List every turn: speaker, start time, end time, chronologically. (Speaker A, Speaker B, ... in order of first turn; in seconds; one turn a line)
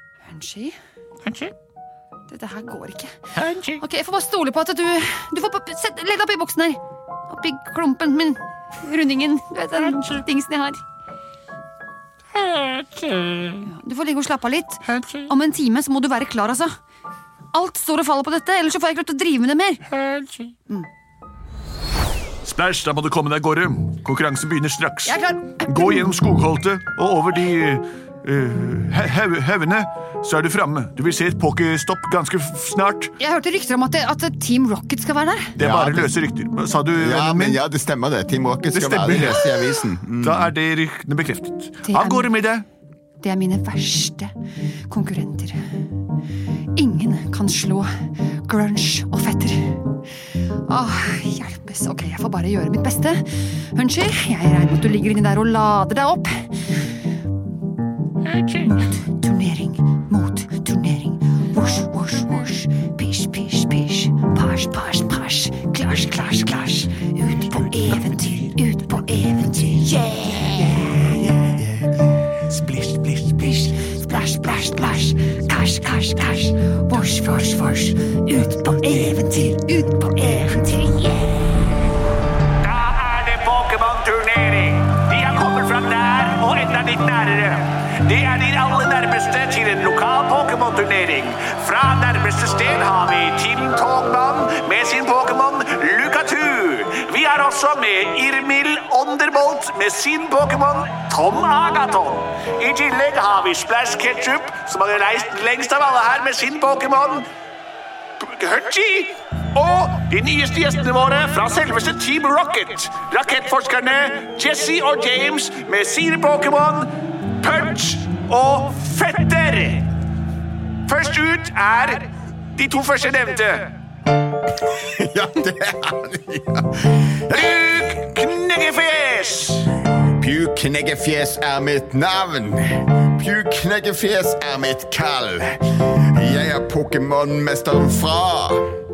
Speaker A: 0.3-0.8
Speaker B: 1.2-1.5
Speaker A: 2.3-3.1
Speaker B: 3.4-3.8
Speaker A: 3.8-10.8
Speaker B: 9.9-10.2
Speaker B: 12.4-13.6
Speaker A: 13.6-16.7
Speaker A: 17.5-19.9
Speaker B: 20.1-20.5
Speaker C: 22.4-33.2
Speaker A: 25.1-26.1
Speaker A: 33.2-35.6
Speaker C: 35.6-37.6
Speaker D: 35.6-36.1
Speaker D: 37.0-40.5
Speaker C: 38.7-42.7
Speaker A: 41.9-42.3
Speaker A: 43.2-44.3
Speaker A: 44.9-45.6
Speaker A: 46.8-47.9
Speaker A: 48.5-49.8
Speaker A: 50.7-56.6
Speaker B: 58.3-58.7
Speaker A: 58.6-71.3
Speaker C: 67.5-68.5
Speaker C: 72.5-73.5
Speaker A: 73.3-81.8
Speaker B: 82.6-107.2
Speaker B: 108.2-116.9
Speaker B: 117.4-119.9
Speaker B: 120.9-123.7
Speaker D: 124.6-128.0
Speaker B: 127.3-129.7
Speaker D: 130.2-138.6